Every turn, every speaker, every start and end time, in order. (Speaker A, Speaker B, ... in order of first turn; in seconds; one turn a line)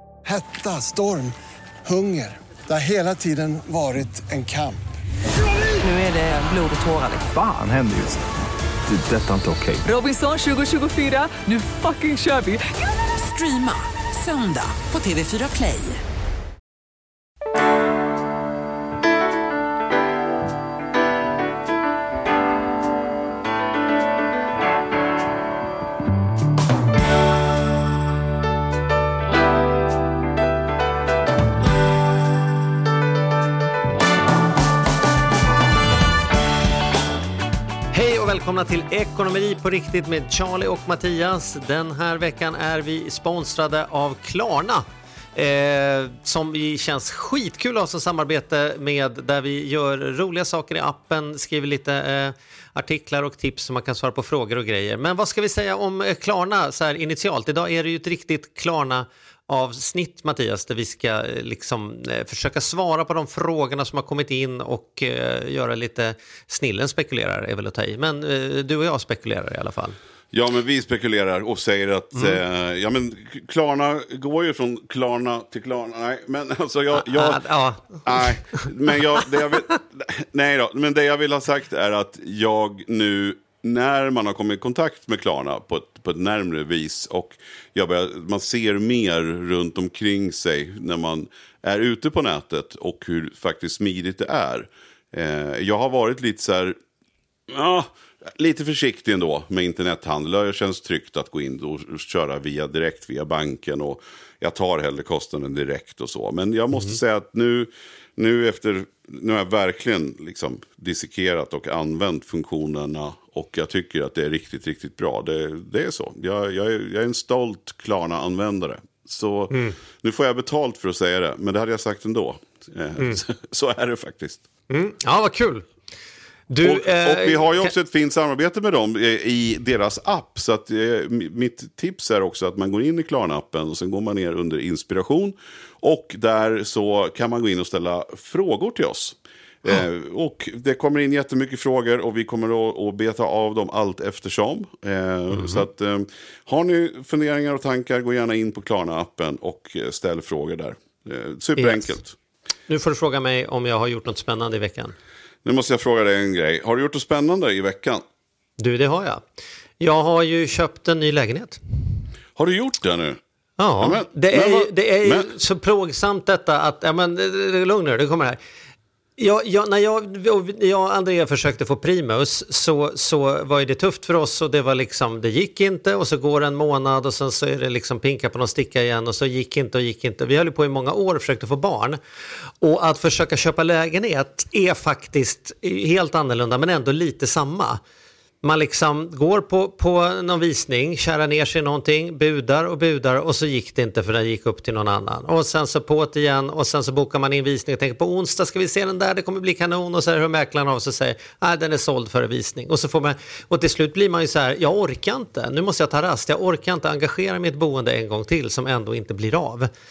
Speaker A: 0.2-1.3
Speaker A: 1.9-4.8
Speaker B: 5.4-7.3
Speaker C: 7.2-8.2
Speaker C: 8.9-9.8
Speaker B: 9.8-16.0
Speaker D: 37.9-44.8
Speaker D: 45.4-70.0
Speaker E: 70.3-77.4
Speaker D: 77.0-78.7
Speaker E: 77.9-96.8
Speaker E: 97.5-124.4
Speaker D: 119.5-119.8
Speaker D: 124.7-125.6
Speaker D: 126.5-127.7
Speaker E: 126.6-152.2
Speaker D: 145.3-145.6
Speaker D: 151.6-152.0
Speaker D: 152.7-154.9
Speaker E: 155.4-158.0
Speaker D: 158.6-159.2
Speaker D: 159.8-161.6
Speaker E: 162.3-163.2
Speaker D: 163.6-168.4
Speaker E: 163.8-165.3
Speaker D: 169.2-182.0
Speaker D: 182.6-187.8
Speaker D: 188.4-209.7